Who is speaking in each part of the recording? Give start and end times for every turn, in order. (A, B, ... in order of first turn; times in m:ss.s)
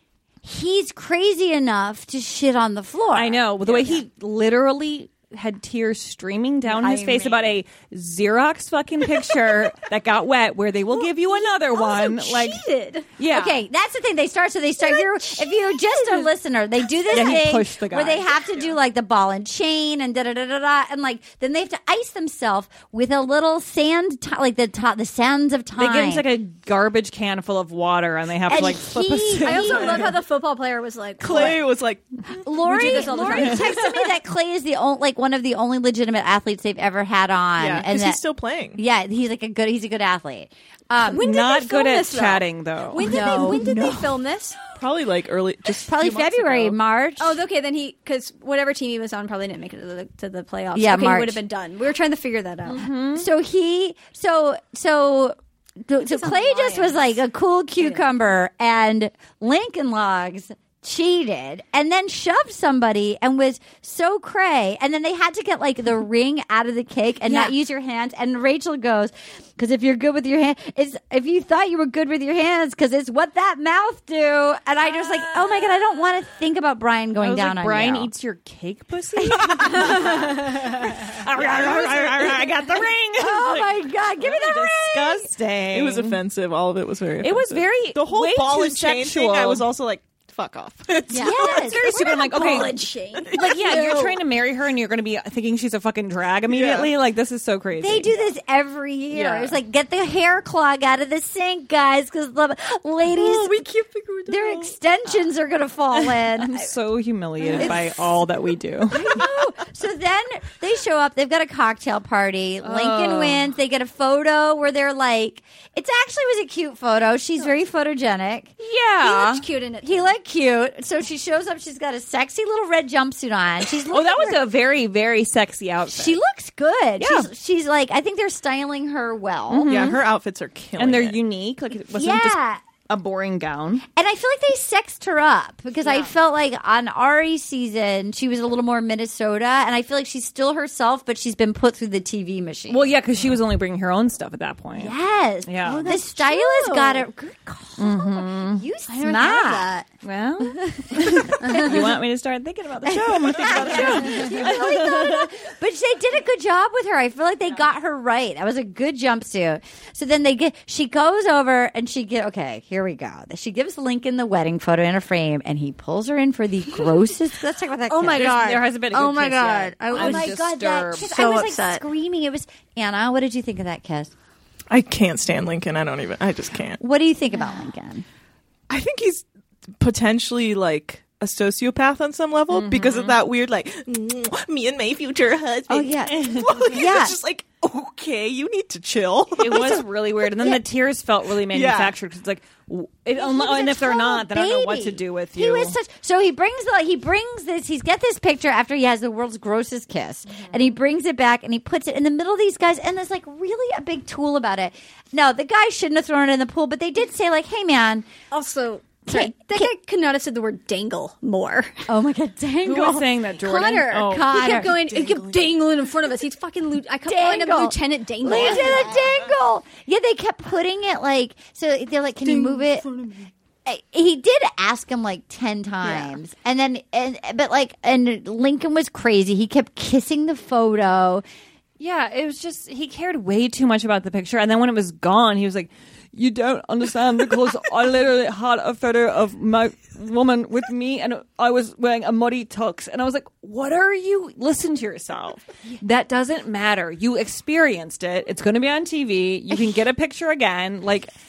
0:00.4-0:04.0 A
0:03.1-0:12.6 B
0:06.6-0:07.6 A
0:11.1-0:13.1 C
0:13.2-0:13.6 B
0:13.3-0:26.3 A
0:14.8-0:16.3 C
0:17.1-0:18.3 B
0:25.8-0:30.1 B
0:28.5-0:30.1 A
0:29.4-0:31.6 C
0:31.2-0:32.2 D
0:32.4-0:38.2 A
0:32.6-0:34.2 C
0:32.7-0:33.6 B
0:37.6-0:38.8 D
0:38.8-0:41.2 A
0:41.0-0:44.6 C
0:41.1-0:43.6 B
0:43.0-0:44.1 A
0:44.7-0:46.8 D
0:45.8-0:47.4 A
0:47.2-0:52.8 C
0:50.7-0:51.4 A
0:52.7-0:53.3 B
0:53.1-1:18.1 A
0:56.0-0:57.1 C
1:07.3-1:07.5 C
1:17.2-1:26.2 B
1:19.3-1:19.9 A
1:19.6-1:20.4 D
1:21.0-1:22.9 D
1:23.2-1:25.3 A
1:24.4-1:34.2 D
1:27.2-1:29.6 B
1:31.1-1:31.8 A
1:31.1-1:34.1 C
1:31.6-1:32.8 B
1:33.3-1:38.1 B
1:36.5-1:36.9 D
1:37.8-1:43.6 A
1:39.1-1:39.6 B
1:43.2-1:44.6 C
1:44.3-1:46.7 A
1:45.9-1:49.1 B
1:47.5-1:48.0 A
1:48.9-1:58.5 A
1:52.6-1:53.4 B
1:58.6-1:59.4 B
1:59.0-2:00.1 C
1:59.8-2:04.4 A
2:03.9-2:06.2 B
2:05.9-2:09.9 A
2:07.0-2:07.3 B
2:09.5-2:10.0 B
2:09.7-2:11.2 D
2:10.8-2:13.8 B
2:11.9-2:12.6 A
2:13.9-2:22.9 A
2:22.7-2:25.9 B
2:24.8-2:29.7 A
2:25.6-2:27.1 C
2:27.8-2:28.6 B
2:28.9-2:29.8 C
2:30.0-2:35.3 B
2:30.8-2:31.9 A
2:31.4-2:31.9 C
2:32.8-2:48.5 A
2:47.9-2:50.4 C
2:48.1-2:51.1 B
2:49.9-2:54.1 A
2:51.0-2:51.8 C
2:54.7-2:56.8 D
2:56.8-2:58.0 A
2:58.7-2:59.2 D
2:59.8-3:09.8 D
3:02.5-3:03.2 B
3:05.7-3:07.2 A
3:06.1-3:06.5 B
3:09.4-3:15.8 B
3:11.5-3:11.9 D
3:13.1-3:28.1 A
3:28.3-3:31.9 C
3:29.1-3:29.7 A
3:31.9-3:33.1 A
3:32.6-3:34.6 B
3:33.4-3:39.1 C
3:33.9-3:34.7 A
3:34.8-3:35.5 D
3:37.1-3:42.8 A
3:42.2-3:43.2 C
3:43.6-3:51.2 A
3:45.8-3:46.1 C
3:51.8-4:11.1 B